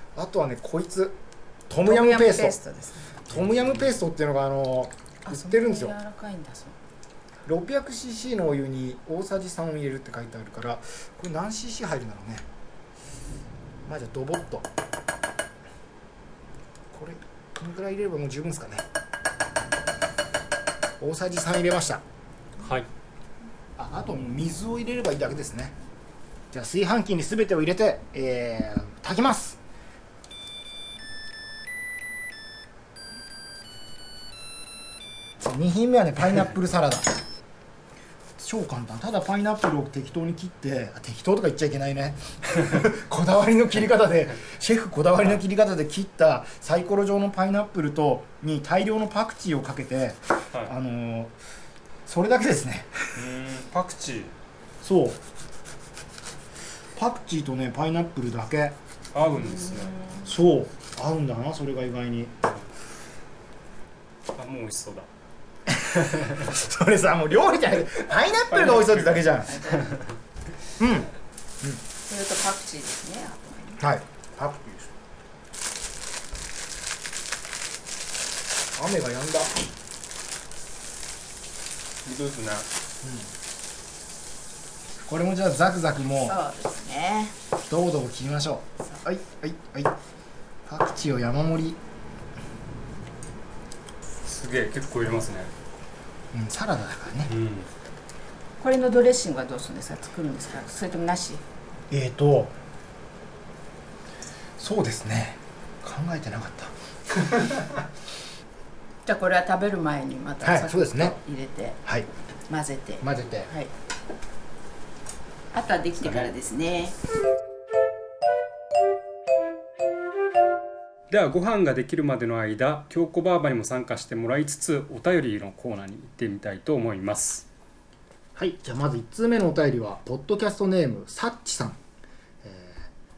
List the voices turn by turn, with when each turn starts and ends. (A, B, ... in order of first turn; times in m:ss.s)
0:00.1-0:02.6 A
0:01.8-0:03.2 B
0:03.3-0:06.0 A
0:03.3-0:03.9 C
0:05.2-0:06.8 B
0:07.5-0:12.5 A
0:13.8-0:14.7 A
0:16.9-0:18.9 A
0:21.0-0:22.0 A
0:23.8-0:25.8 A
0:26.5-0:29.6 A
0:35.4-0:37.2 A
0:38.4-0:51.3 A
0:52.0-0:53.2 A
0:53.1-0:54.3 C
0:54.8-0:55.2 A
0:57.0-0:58.8 A
0:59.1-1:00.0 C
0:59.6-1:00.2 B
1:00.2-1:02.4 A
1:04.3-1:05.1 C
1:05.7-1:09.6 A
1:08.5-1:10.1 C
1:09.5-1:10.0 B
1:10.8-1:11.1 A
1:12.0-1:13.8 B
1:13.8-1:14.9 A
1:18.8-1:19.5 A
1:22.0-1:22.7 C
1:23.0-1:23.3 A
1:25.0-1:26.4 A
1:26.2-1:27.4 B
1:27.6-1:29.9 A
1:30.6-1:31.8 A
1:34.2-1:35.5 C
1:36.3-1:37.3 A
1:37.3-1:37.7 C
1:38.6-1:41.4 B
1:41.9-1:42.6 A
1:44.6-1:46.7 A
1:49.0-1:51.8 B
1:50.4-1:51.2 A
1:52.5-1:53.7 B
1:53.0-1:53.5 A
1:55.5-1:57.0 B
1:56.0-1:56.3 C
2:01.1-2:07.5 C
2:08.4-2:11.8 A
2:12.4-2:12.8 A